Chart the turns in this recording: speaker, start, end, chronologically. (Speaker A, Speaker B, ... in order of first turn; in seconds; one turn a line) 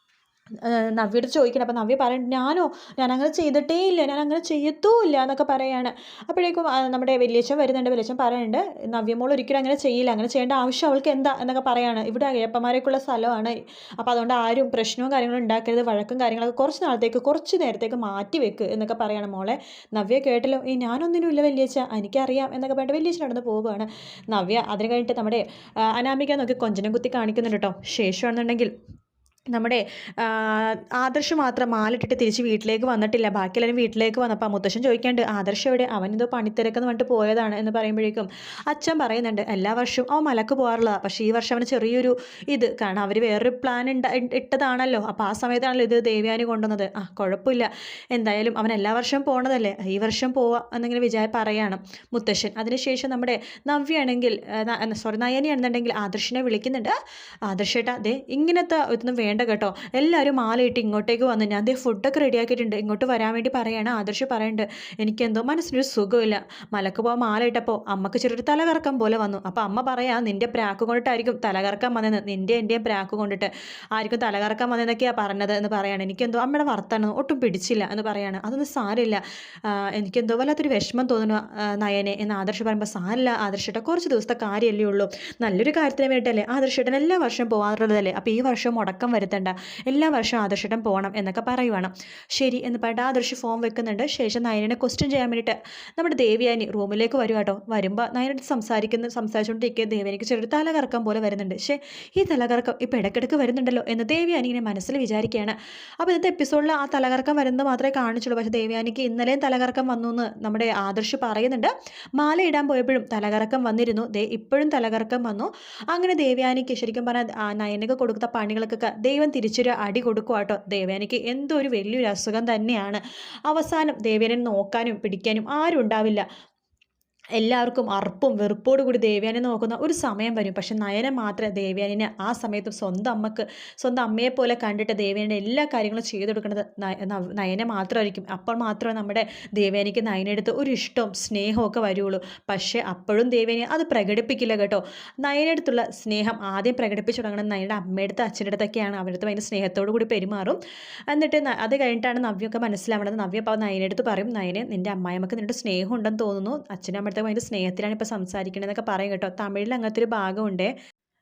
Speaker A: 0.6-28.7
Speaker A: 29.5-56.9
Speaker A: 57.5-126.2
Speaker A: 127.4-150.6
Speaker A: 151.1-160.7